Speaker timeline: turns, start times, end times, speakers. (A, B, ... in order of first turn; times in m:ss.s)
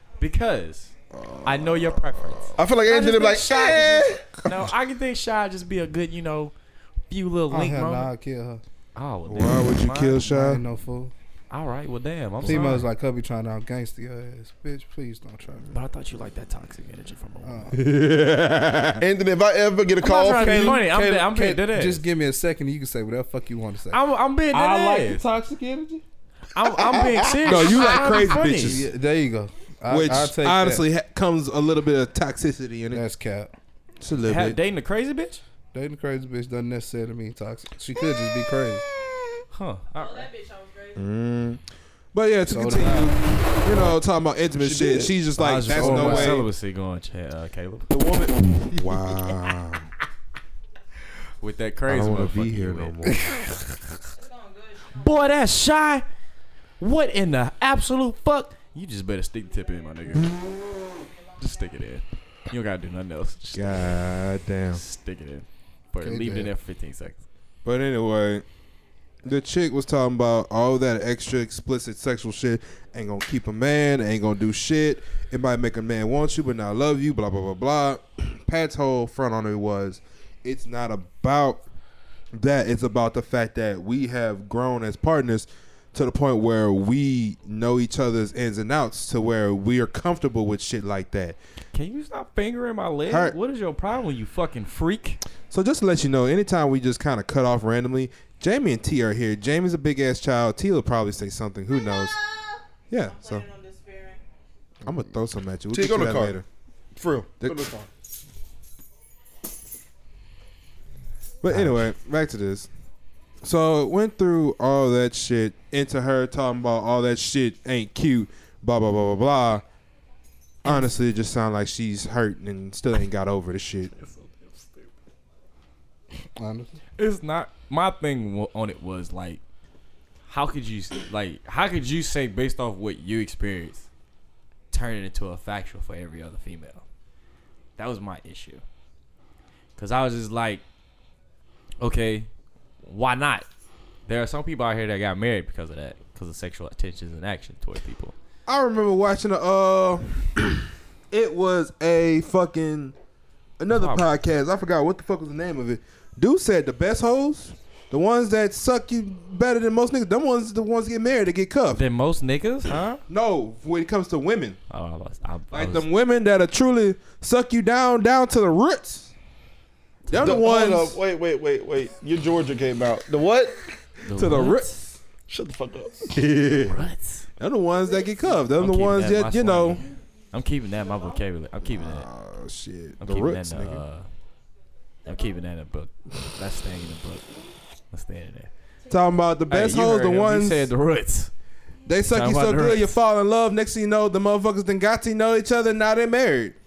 0:00.2-0:00.9 A
0:01.1-0:02.4 B
0:01.4-0:06.5 A
0:02.6-0:04.4 C
0:07.1-0:08.1 A
0:07.5-0:08.6 D
0:08.9-0:10.2 A
0:09.3-0:10.6 B
0:10.2-0:11.1 D
0:11.5-0:12.8 A
0:12.4-0:15.8 D
0:15.7-0:17.7 A
0:17.4-0:17.8 D
0:17.7-0:19.0 B
0:19.0-0:20.8 C
0:20.0-0:22.0 A
0:20.1-0:24.0 D
0:23.9-0:25.2 A
0:24.5-0:26.0 D
0:26.5-0:28.8 A
0:26.7-0:28.0 C
0:27.4-0:28.8 B
0:28.6-0:30.8 D
0:29.9-0:33.0 B
0:32.9-0:33.5 D
0:34.0-0:34.6 B
0:34.2-0:35.4 A
0:35.7-0:38.8 D
0:39.5-0:40.3 A
0:40.0-0:41.0 E
0:41.0-0:41.6 B
0:42.1-0:46.5 B
0:42.5-0:43.2 D
0:44.6-0:45.2 C
0:45.4-0:48.6 A
0:45.7-0:46.4 D
0:48.0-0:49.9 B
0:51.4-0:53.4 A
0:51.9-0:53.4 B
0:53.0-0:53.3 D
0:54.1-0:55.2 E
0:54.9-0:56.0 A
0:56.8-1:00.3 A
1:00.2-1:01.5 E
1:01.4-1:03.9 A
1:03.5-1:04.8 B
1:04.7-1:07.2 A
1:06.0-1:06.5 D
1:07.6-1:08.4 B
1:09.2-1:21.6 B
1:22.3-1:31.4 B
1:31.7-1:35.2 A
1:33.1-1:33.3 B
1:35.5-1:42.2 B
1:41.7-1:44.2 E
1:42.9-1:43.4 B
1:44.8-1:46.4 B
1:45.7-1:46.4 C
1:47.0-1:47.9 C
1:47.4-1:47.6 B
1:51.4-1:52.7 B
1:51.5-1:51.8 A
1:53.4-1:59.6 B
2:00.6-2:03.9 B
2:00.6-2:00.9 A
2:04.0-2:04.9 A
2:06.4-2:06.8 D
2:07.0-2:09.4 A
2:10.3-2:13.9 A
2:14.7-2:16.8 A
2:17.8-2:18.6 A
2:19.8-2:20.6 A
2:21.8-2:22.3 A
2:22.8-2:23.4 A
2:24.1-2:28.1 A
2:28.5-2:33.0 B
2:33.6-2:41.8 B
2:33.7-2:34.1 A
2:41.7-2:43.0 A
2:43.1-2:44.6 B
2:44.7-2:45.9 A
2:45.5-2:49.1 B
2:50.1-2:51.0 B
2:50.1-2:53.6 C
2:54.0-2:54.7 A
2:54.1-2:54.9 B
2:55.3-2:56.2 C
2:56.1-2:56.8 B
2:56.5-2:57.2 A
2:57.4-2:59.8 B
2:57.8-2:58.4 E
2:58.6-3:02.1 A
2:59.6-3:00.0 E
3:00.7-3:01.2 E
3:01.6-3:03.8 B
3:03.0-3:04.1 A
3:05.0-3:07.2 A
3:05.1-3:05.4 E
3:07.9-3:08.5 A
3:08.8-3:09.3 E
3:08.9-3:10.7 B
3:09.5-3:11.3 A
3:11.8-3:16.6 B
3:12.1-3:13.0 A